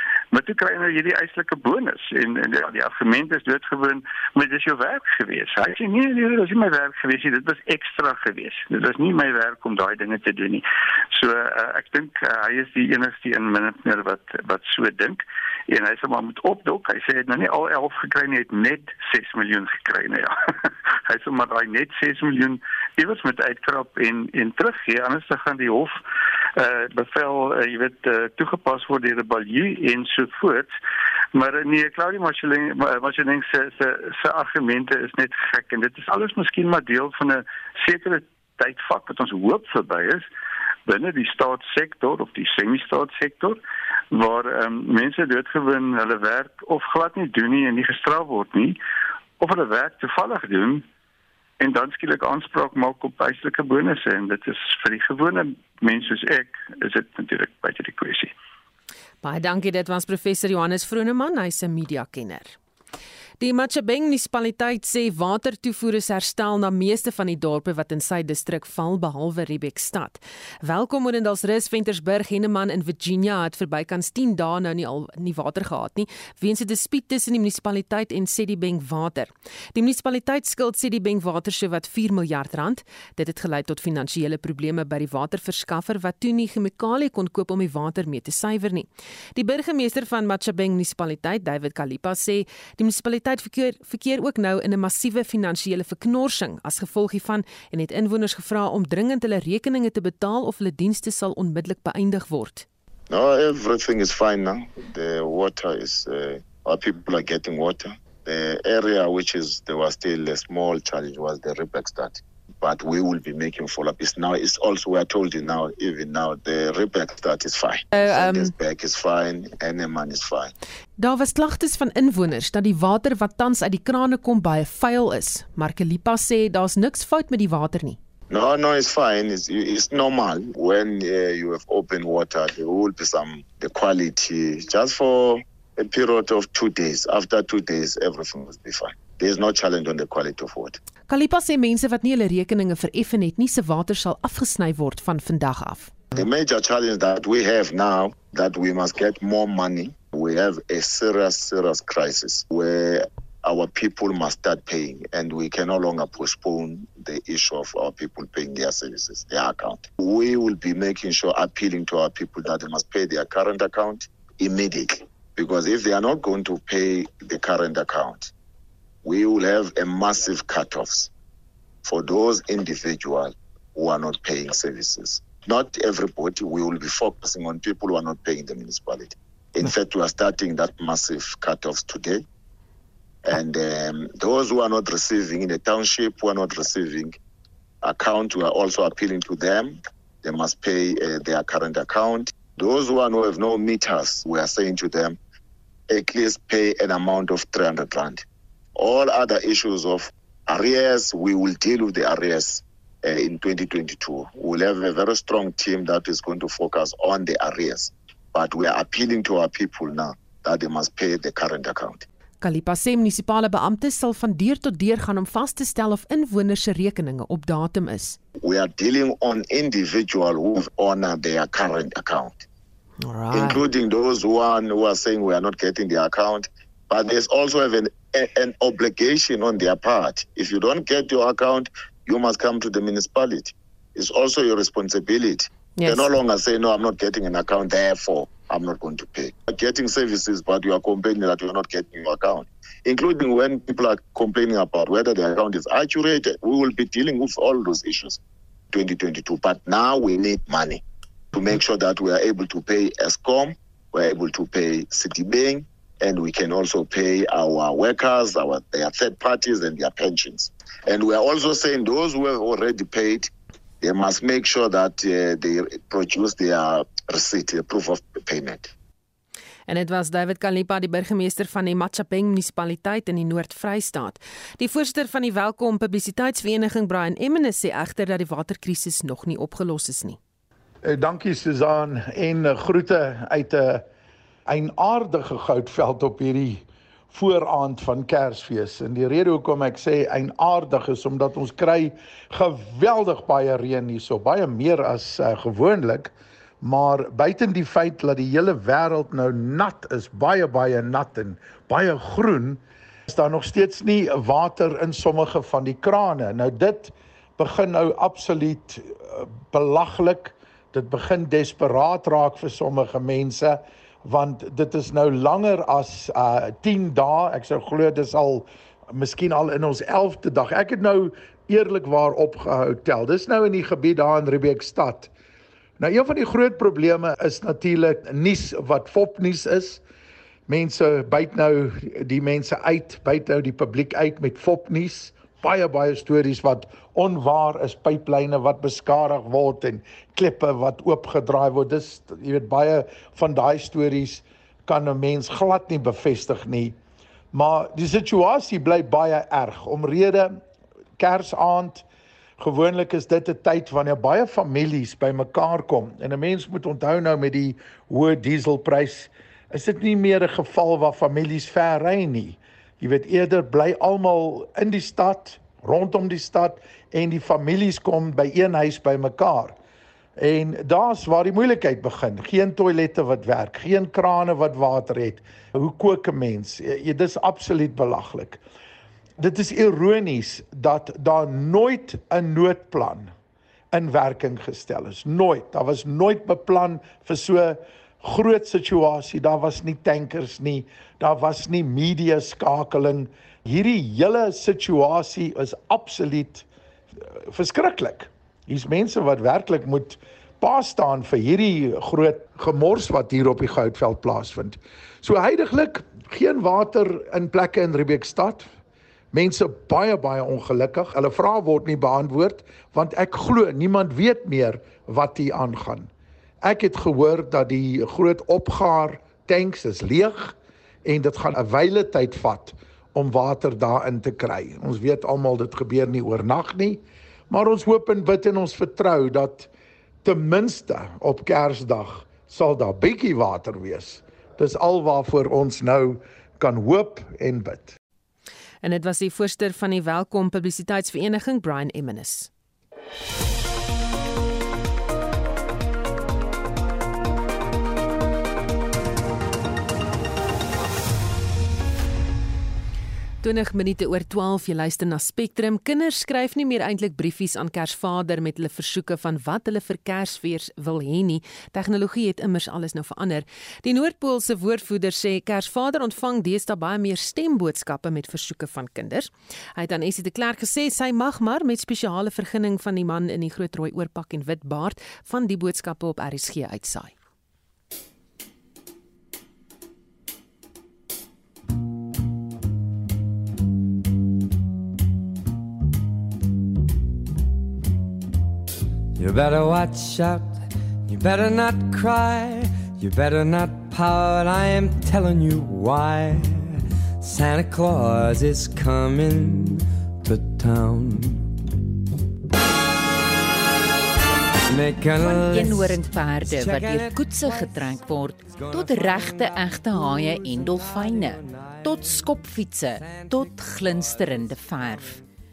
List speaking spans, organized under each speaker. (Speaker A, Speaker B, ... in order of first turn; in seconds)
Speaker A: 0.3-20.4, 21.1-26.0, 26.6-30.8, 31.3-40.3, 40.9-43.6, 44.1-48.8, 49.4-50.9, 51.6-58.3
Speaker B: 59.2-62.6, 63.4-102.7, 117.9-118.5, 121.0-128.0, 141.1-146.0, 212.4-218.2, 223.0-223.6, 235.8-236.1, 269.7-280.2, 438.6-442.3, 453.2-476.9
Speaker C: 103.1-120.5, 128.3-140.8, 146.1-168.3, 169.0-171.1, 171.8-182.2, 183.3-187.2, 187.8-195.2, 195.9-198.2, 198.8-212.0, 218.4-222.4, 223.3-248.2, 248.7-250.8, 251.3-268.7
Speaker D: 280.8-283.9, 284.5-325.1, 325.8-329.8, 330.5-346.8, 347.3-350.4, 351.0-351.9, 352.4-369.6, 370.2-378.4, 379.2-383.1, 383.7-396.5, 397.2-408.5, 409.1-415.9, 416.4-429.5, 430.0-437.8
Speaker E: 489.0-501.4, 504.5-512.1, 512.8-515.0
Speaker F: 505.0-515.0